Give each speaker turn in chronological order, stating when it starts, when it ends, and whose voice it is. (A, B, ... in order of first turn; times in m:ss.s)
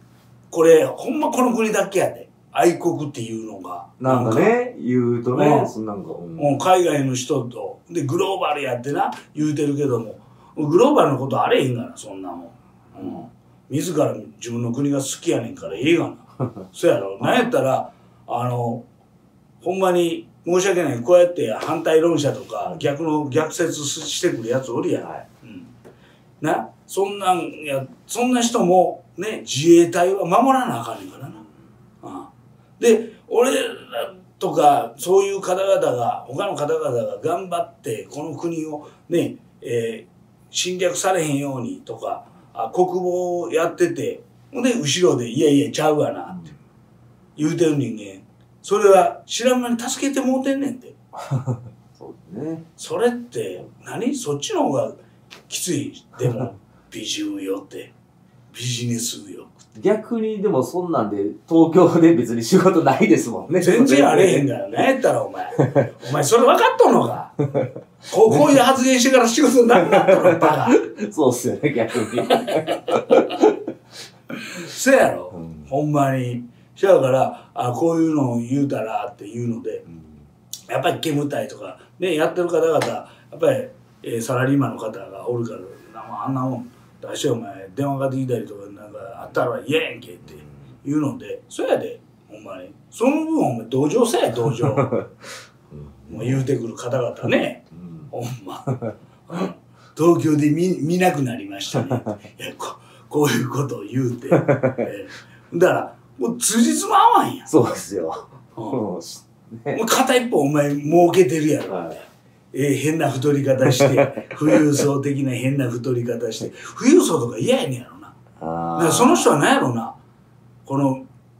0:00.5-0:04.6 A
0:04.0-0:06.6 B
0:05.3-0:05.7 A
0:06.4-0:18.8 A
0:13.0-0:13.2 B
0:17.2-0:17.5 B
0:19.6-0:25.7 A
0:25.0-0:25.2 B
0:26.4-0:31.4 A
0:32.0-0:46.5 A
0:46.3-0:46.5 B
0:47.4-0:50.9 A
0:51.3-0:52.6 B
0:52.8-0:57.9 A
0:58.5-0:59.5 A
0:59.7-1:04.5 B
1:03.6-1:07.3 A
1:05.6-1:05.8 B
1:08.1-1:10.8 A
1:09.8-1:13.5 B
1:14.4-1:19.8 A
1:15.3-1:15.7 B
1:19.9-1:20.2 B
1:20.7-1:35.0 A
1:34.4-1:35.0 B
1:35.7-1:36.5 B
1:36.1-1:38.6 A
1:37.7-1:38.1 B
1:38.7-1:38.9 B
1:39.3-1:47.5 A
1:44.3-1:44.8 B
1:47.4-1:49.8 B
1:49.7-1:58.1 A
1:51.6-1:52.0 B
1:53.7-1:54.5 B
1:58.4-1:59.3 B
1:58.7-1:59.9 A
2:00.6-2:01.0 A